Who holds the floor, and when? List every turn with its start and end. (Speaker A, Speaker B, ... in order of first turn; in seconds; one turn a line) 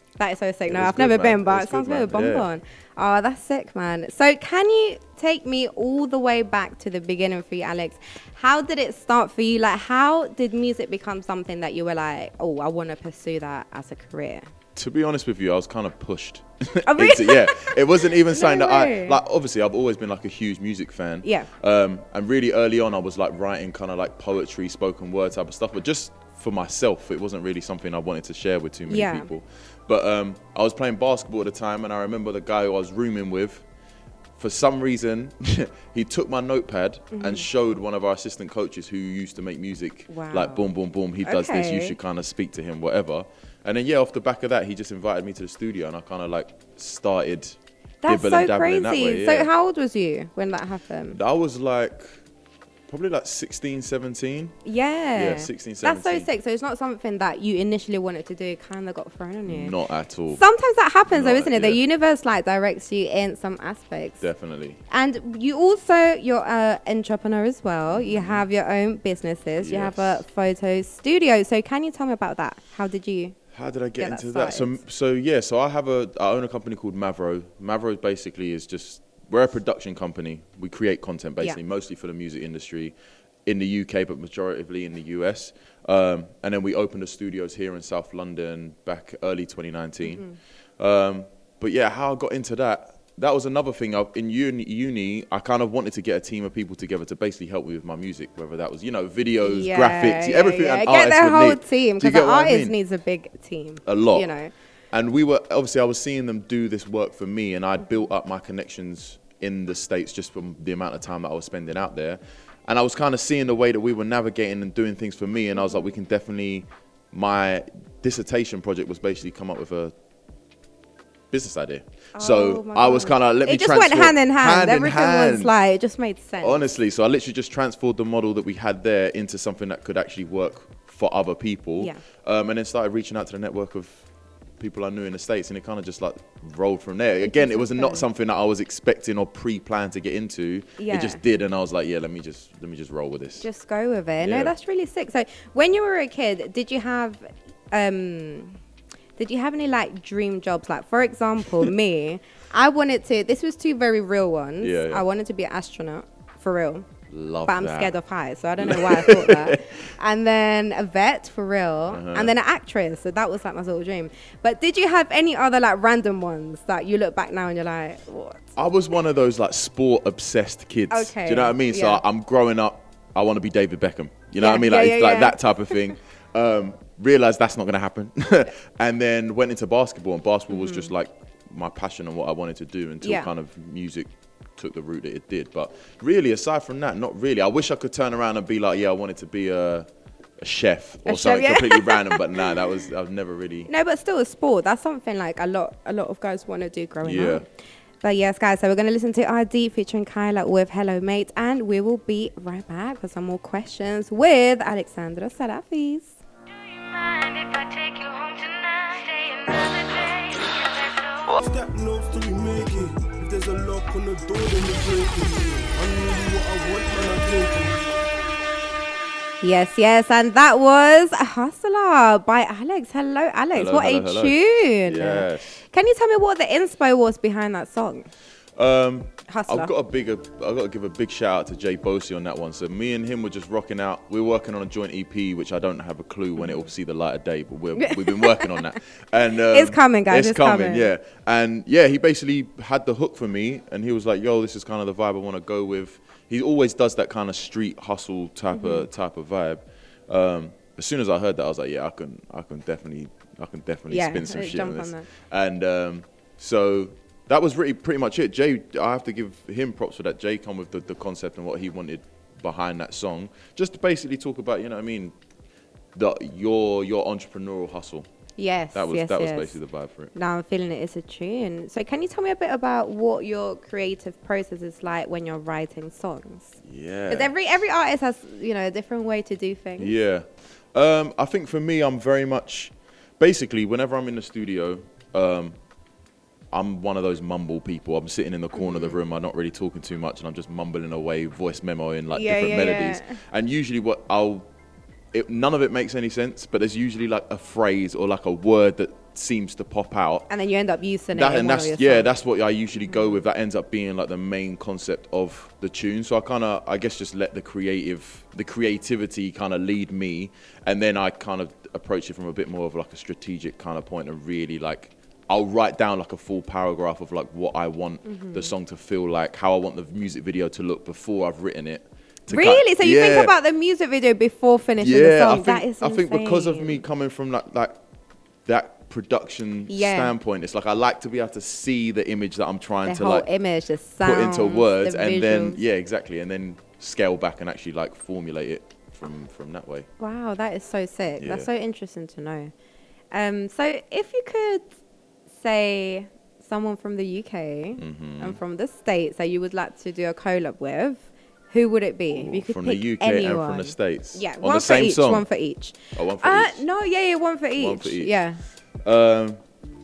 Speaker A: 0.2-14.4
Speaker B: 0.7-2.5
Speaker B: 14.8-33.6
Speaker A: 16.9-19.2
Speaker A: 21.2-21.5
Speaker A: 28.9-29.3
Speaker B: 34.4-49.5
Speaker A: 37.1-37.5
Speaker A: 40.1-40.7
Speaker A: 41.2-42.0
Speaker A: 48.0-51.2
Speaker B: 51.1-52.2
Speaker B: 52.9-54.5
Speaker A: 54.6-59.7
Speaker B: 55.1-56.3
Speaker B: 59.5-60.4
Speaker A: 60.3-64.2
Speaker B: 61.1-61.8
Speaker B: 64.2-64.8
Speaker A: 64.9-73.4
Speaker B: 67.9-68.4
Speaker B: 69.6-70.2
Speaker B: 73.5-82.9
Speaker A: 74.0-74.8
Speaker B: 83.5-90.2
Speaker A: 90.0-90.4
Speaker B: 90.8-102.8
Speaker A: 99.4-104.5
Speaker B: 103.8-104.3
Speaker B: 104.9-119.9
Speaker B: 121.3-125.5
Speaker A: 122.2-126.6
Speaker B: 126.4-134.1
Speaker B: 134.6-143.4
Speaker A: 137.2-138.0
Speaker A: 140.8-141.2
Speaker A: 143.4-148.6
Speaker B: 144.2-144.5
Speaker A: 149.2-156.9
Speaker B: 154.6-155.0
Speaker B: 157.1-157.9
Speaker A: 157.4-168.5
Speaker B: 158.6-159.8
Speaker B: 161.9-162.3
Speaker B: 168.6-189.9
Speaker A: 170.9-172.0
Speaker A: 174.4-175.9
Speaker A: 180.5-180.9
Speaker A: 183.0-183.3
Speaker B: 190.4-193.7
Speaker A: 191.1-192.6
Speaker A: 193.7-197.4
Speaker B: 197.0-197.4
Speaker A: 198.0-206.2
Speaker C: 206.8-218.0
Speaker A: 209.9-210.4
Speaker A: 219.4-228.1
Speaker B: 223.5-225.6
Speaker B: 228.6-265.1
Speaker A: 229.3-229.7
Speaker A: 237.8-238.7
Speaker A: 239.5-240.9
Speaker A: 248.5-248.9
Speaker A: 253.9-255.1
Speaker B: 265.9-268.1
Speaker A: 268.4-269.6
Speaker B: 268.7-270.1
Speaker A: 270.1-279.9
Speaker B: 276.6-277.3
Speaker B: 279.8-285.6
Speaker B: 286.5-294.5
Speaker A: 288.6-288.9
Speaker A: 292.1-293.2
Speaker B: 295.1-300.2
Speaker A: 300.3-302.1
Speaker B: 301.1-323.3
Speaker A: 318.1-318.5
Speaker A: 322.3-326.8
Speaker B: 324.8-327.7
Speaker B: 328.4-333.2
Speaker A: 329.7-330.1
Speaker A: 332.8-335.6
Speaker B: 334.0-339.9
Speaker A: 340.0-342.5
Speaker B: 341.2-341.5
Speaker A: 343.1-344.7
Speaker A: 345.3-358.4
Speaker B: 347.8-348.4
Speaker B: 352.1-355.2
Speaker B: 355.9-356.6
Speaker B: 357.6-358.1
Speaker B: 358.8-359.4